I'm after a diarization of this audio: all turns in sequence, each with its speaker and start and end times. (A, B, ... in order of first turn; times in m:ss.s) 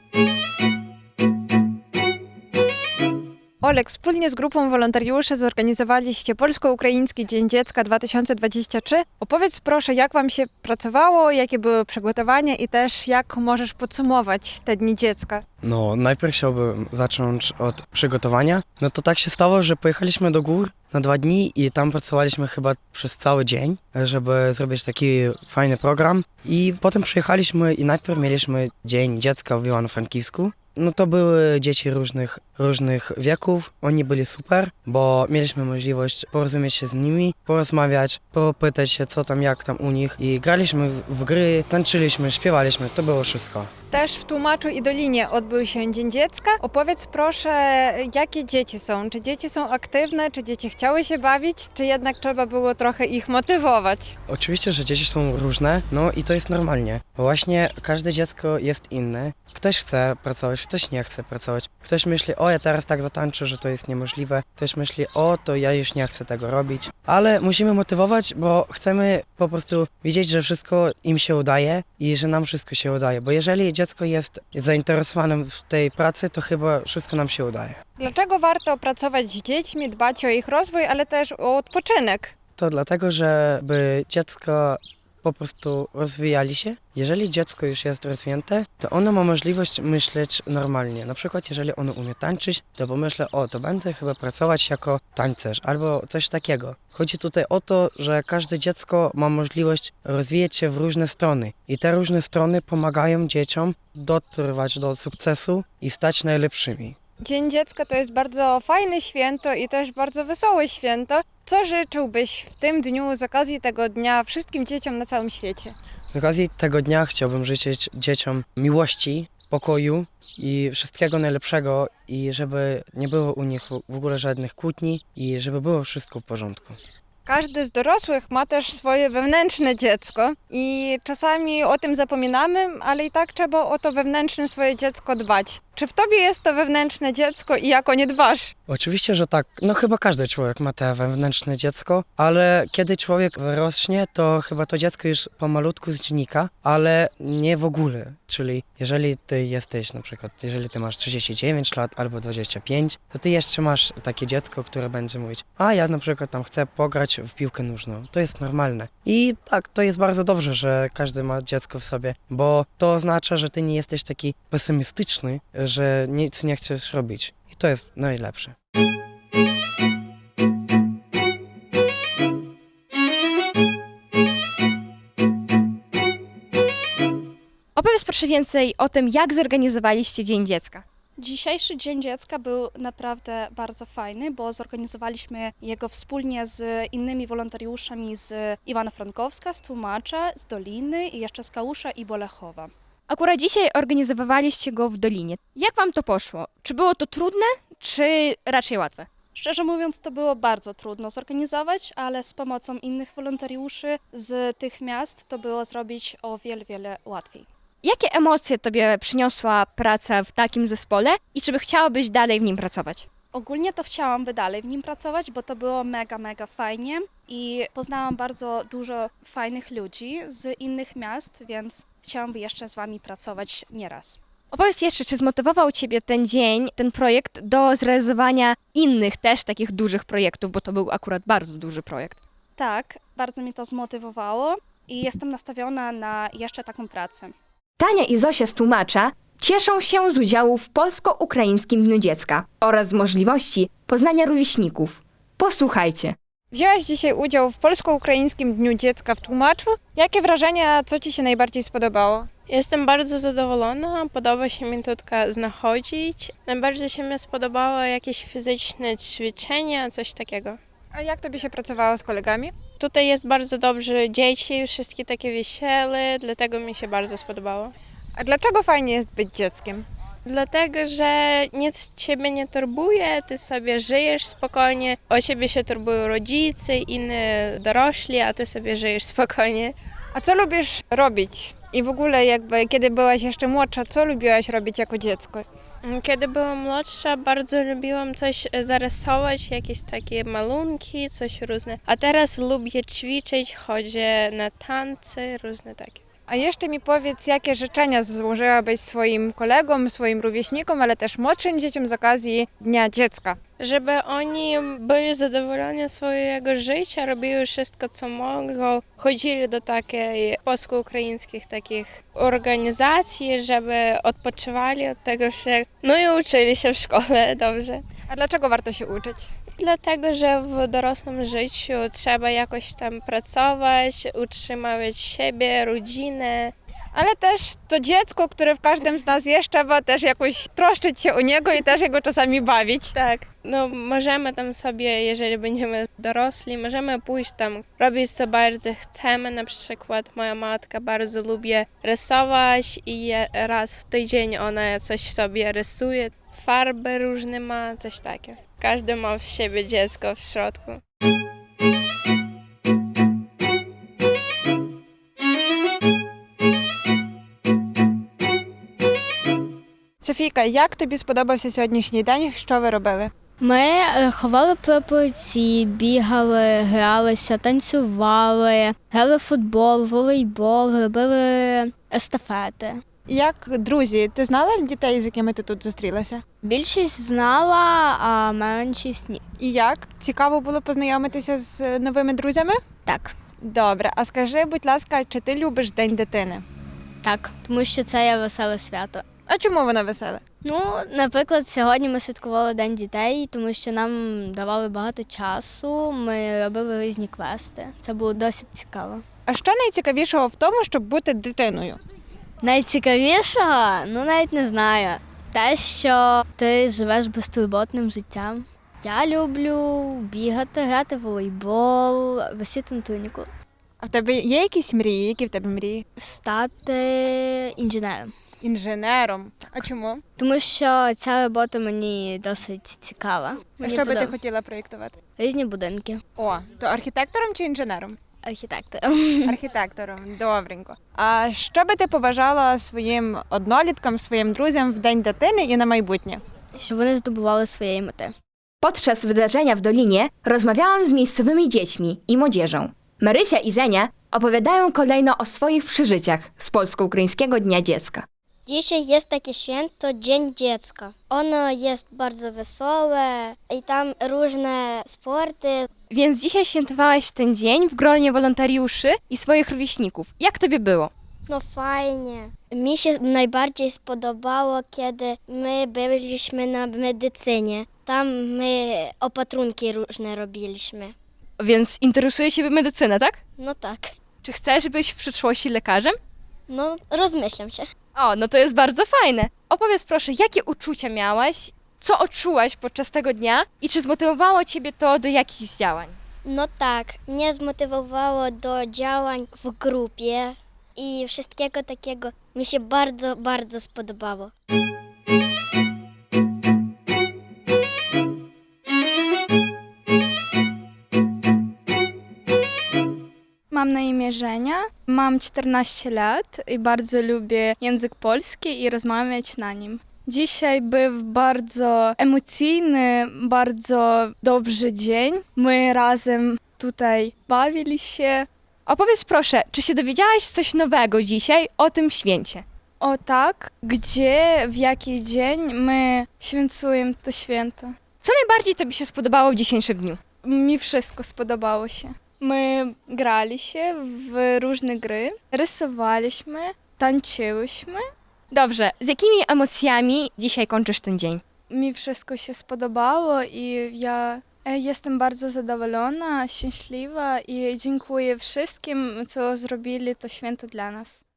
0:03.6-0:15.4 A
0:15.6-0:43.7 B
0:43.9-0:54.1 A
0:54.3-1:17.8 B
1:18.0-1:22.3 A
1:22.6-1:47.0 B
1:47.2-1:55.7 A
1:56.1-2:06.8 B
2:07.2-2:18.5 A
2:18.7-2:48.5 B
2:57.8-3:00.8 C
3:01.2-3:12.7 D
3:13.1-3:19.1 C
3:19.3-3:27.4 D
3:27.8-3:33.0 C
3:33.3-3:44.2 D
3:44.5-3:52.2 C
3:52.6-3:57.3 D
3:57.8-4:06.1 C
4:06.5-4:12.3 A
4:12.5-4:20.6 E
4:20.9-4:22.5 A
4:22.8-4:27.7 E
4:28.2-4:29.8 A
4:30.2-4:39.7 E
4:40.1-4:45.4 A
4:45.8-4:56.0 E
4:56.3-5:03.4 A
5:03.6-5:17.8 E
5:18.1-5:19.3 A
5:19.6-5:26.5 E
5:26.9-5:32.9 A
5:33.0-5:50.8 E
6:00.0-6:03.1 A
6:03.4-6:12.8 F
6:13.1-6:16.2 A
6:16.4-6:19.2 F
6:19.4-6:22.6 A
6:22.8-6:23.1 F
6:23.4-6:26.4 A
6:27.0-6:29.0 F
6:29.3-6:30.2 A
6:30.4-6:39.0 F
6:39.3-6:41.8 A
6:42.4-6:53.2 F
6:53.8-6:55.8 A
6:56.0-6:58.1 F
6:58.4-7:00.0 A
7:00.2-7:04.1 F
7:03.6-7:05.0 A
7:05.2-7:06.0 F
7:06.2-7:08.0 A
7:08.2-7:09.4 F
7:09.3-7:16.2 A
7:16.6-7:18.1 F
7:18.6-7:28.0 C
7:28.5-7:35.7 G
7:35.9-7:40.9 C
7:41.3-7:50.9 G
7:51.4-7:53.2 C
7:53.4-7:53.9 G
7:54.2-7:56.0 C
7:56.5-7:57.7 G
7:58.0-8:06.0 C
8:06.2-8:14.3 G
8:23.5-8:38.3 H
8:38.6-8:42.4 C
8:42.8-8:47.7 H
8:48.0-8:50.0 C
8:50.2-8:57.8 H
8:58.3-9:01.2 C
9:01.5-9:11.0 H